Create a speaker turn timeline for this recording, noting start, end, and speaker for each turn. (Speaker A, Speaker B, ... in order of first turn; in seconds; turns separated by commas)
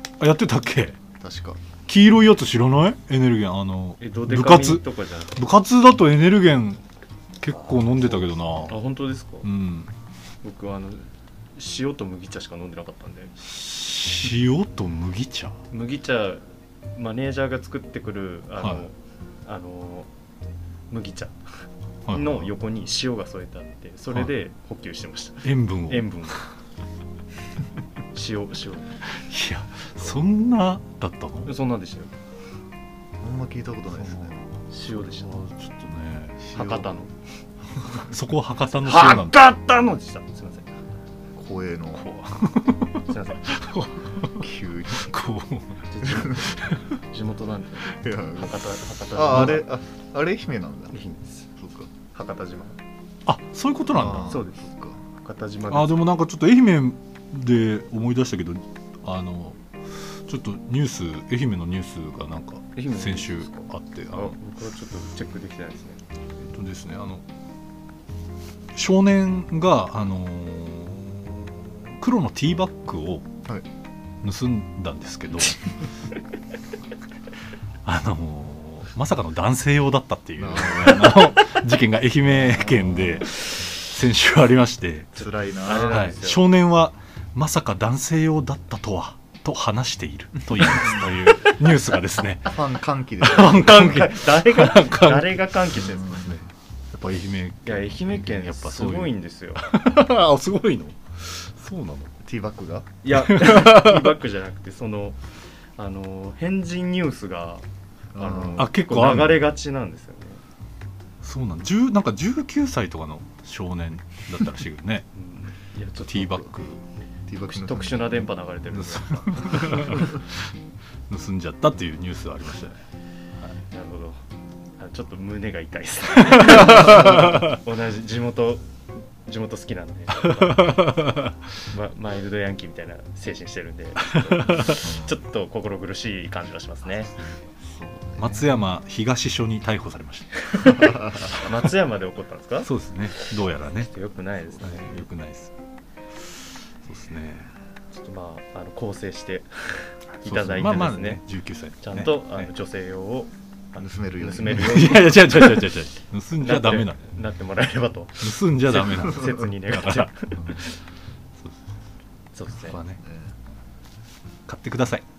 Speaker A: 0.2-1.0, Speaker B: 1.2-1.6, Speaker A: 1.9-6.8, Speaker C: 4.0-5.4, Speaker A: 7.4-8.8, Speaker C: 8.7-9.5, Speaker A: 9.4-9.9, Speaker C: 10.4-13.3, Speaker A: 13.4-15.6, Speaker C: 15.7-20.1, Speaker C: 20.9-21.4, Speaker A: 22.1-22.5, Speaker C: 22.1-26.4, Speaker A: 25.4-26.4, Speaker C: 28.1-29.0, Speaker A: 29.1-31.5, Speaker C: 31.5-32.1, Speaker B: 33.2-34.4, Speaker A: 34.0-36.4, Speaker C: 34.7-35.4, Speaker B: 36.4-36.9, Speaker C: 36.5-37.1, Speaker A: 37.9-39.4, Speaker C: 38.8-40.8, Speaker B: 41.4-42.1, Speaker A: 42.0-45.9, Speaker C: 43.1-43.4, Speaker B: 44.4-45.1, Speaker C: 45.9-49.7, Speaker A: 46.5-46.8, Speaker B: 47.9-48.6, Speaker B: 49.1-51.0, Speaker C: 50.9-51.5, Speaker B: 51.6-51.9, Speaker C: 52.1-52.8, Speaker A: 53.3-54.4, Speaker B: 53.9-55.0, Speaker C: 54.3-56.0, Speaker A: 55.7-64.4, Speaker C: 62.8-66.0, Speaker A: 66.4-67.2, Speaker A: 68.7-73.3, Speaker A: 74.2-75.7, Speaker A: 77.8-85.3, Speaker B: 80.4-81.3, Speaker B: 82.3-83.2, Speaker B: 85.2-86.0, Speaker C: 85.6-86.4, Speaker A: 85.8-92.6, Speaker B: 90.6-91.1, Speaker B: 92.5-94.0, Speaker A: 93.2-102.2, Speaker C: 93.3-96.3, Speaker C: 97.7-99.6, Speaker B: 102.2-102.9, Speaker C: 103.0-105.2, Speaker A: 103.1-104.2, Speaker C: 105.8-107.7, Speaker B: 108.2-108.7, Speaker C: 108.2-110.4, Speaker A: 108.6-109.5, Speaker A: 111.2-115.1, Speaker C: 115.2-116.4, Speaker A: 116.1-116.8, Speaker B: 117.3-118.1, Speaker C: 117.5-120.1, Speaker A: 118.7-120.5, Speaker A: 121.1-122.8, Speaker C: 123.7-124.2, Speaker C: 124.8-128.7, Speaker A: 126.4-127.4, Speaker C: 129.2-131.0, Speaker A: 130.4-131.3, Speaker C: 131.7-137.2, Speaker A: 134.4-134.8, Speaker B: 134.8-135.1, Speaker B: 137.6-138.6, Speaker A: 138.2-140.8, Speaker C: 140.5-142.7, Speaker B: 140.7-141.3, Speaker A: 142.6-143.9, Speaker C: 143.9-145.1, Speaker A: 144.6-145.5, Speaker A: 146.8-147.5, Speaker C: 147.9-151.2, Speaker A: 150.2-152.5, Speaker C: 151.8-155.7, Speaker B: 153.8-155.0, Speaker A: 154.5-157.0, Speaker C: 156.4-160.7, Speaker A: 158.2-160.7, Speaker C: 162.3-162.8, Speaker A: 162.6-163.0, Speaker B: 163.0-163.3, Speaker A: 164.5-165.0